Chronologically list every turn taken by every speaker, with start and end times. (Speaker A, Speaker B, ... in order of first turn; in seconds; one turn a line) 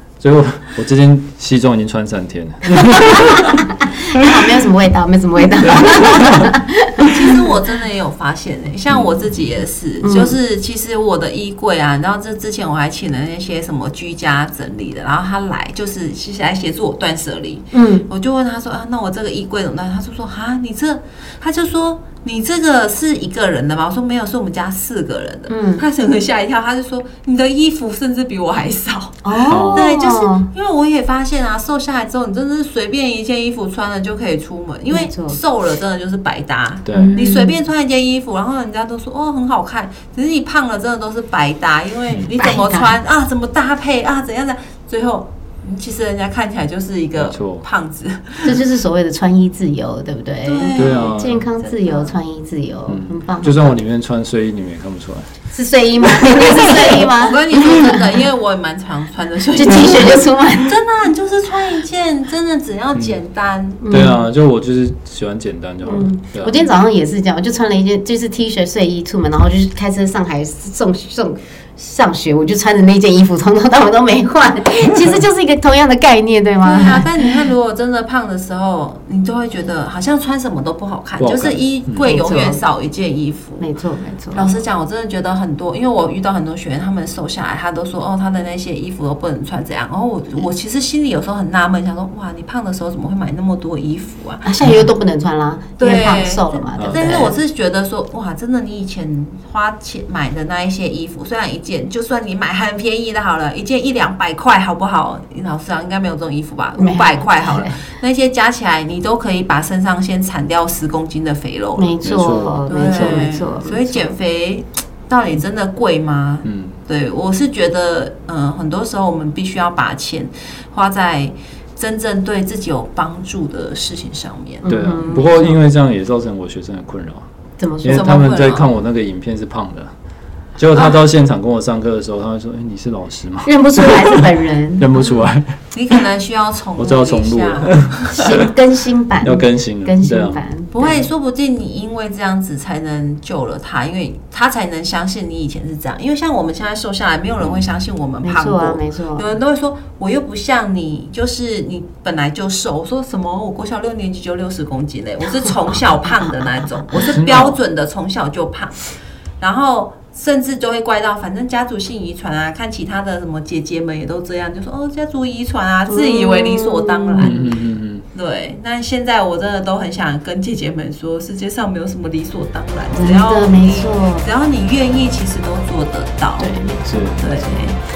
Speaker A: 0.2-3.6
Speaker B: 2.9-7.5
Speaker A: 5.6-6.5
Speaker C: 7.0-48.6
Speaker A: 8.9-9.3
Speaker B: 10.0-10.4
Speaker B: 17.7-18.1
Speaker B: 25.5-25.9
Speaker B: 29.2-30.5
Speaker A: 29.5-29.8
Speaker B: 34.9-35.4
Speaker A: 36.9-37.1
Speaker B: 36.9-37.6
Speaker B: 42.3-43.0
Speaker A: 47.2-47.6
Speaker B: 48.5-53.8
Speaker C: 50.4-52.1
Speaker A: 50.8-51.5
Speaker A: 52.9-55.3
Speaker B: 55.5-58.2
Speaker A: 56.1-56.7
Speaker C: 56.4-63.8
Speaker B: 59.5-60.8
Speaker B: 63.8-64.2
Speaker A: 63.9-66.6
Speaker B: 65.8-77.3
Speaker C: 76.6-83.7
Speaker A: 81.2-82.1
Speaker B: 82.0-82.6
Speaker B: 83.6-84.5
Speaker C: 84.3-94.6
Speaker B: 94.5-97.4
Speaker C: 95.8-124.7
Speaker A: 96.8-97.3
Speaker B: 106.8-107.8
Speaker B: 111.8-114.1
Speaker A: 112.0-113.2
Speaker A: 116.4-116.8
Speaker B: 124.6-125.6
Speaker A: 124.7-127.3
Speaker B: 127.6-128.2
Speaker A: 127.8-129.9
Speaker C: 127.9-128.7
Speaker A: 130.6-135.6
Speaker B: 133.5-134.9
Speaker C: 135.7-138.3
Speaker A: 136.8-138.4
Speaker B: 138.1-141.1
Speaker A: 139.2-140.4
Speaker C: 140.7-167.6
Speaker B: 148.2-149.3
Speaker B: 156.0-157.2
Speaker A: 157.0-157.6
Speaker B: 165.9-167.5
Speaker A: 167.2-168.0
Speaker C: 168.1-176.6
Speaker B: 172.9-174.2
Speaker B: 176.4-177.6
Speaker A: 176.9-177.2
Speaker C: 177.2-177.8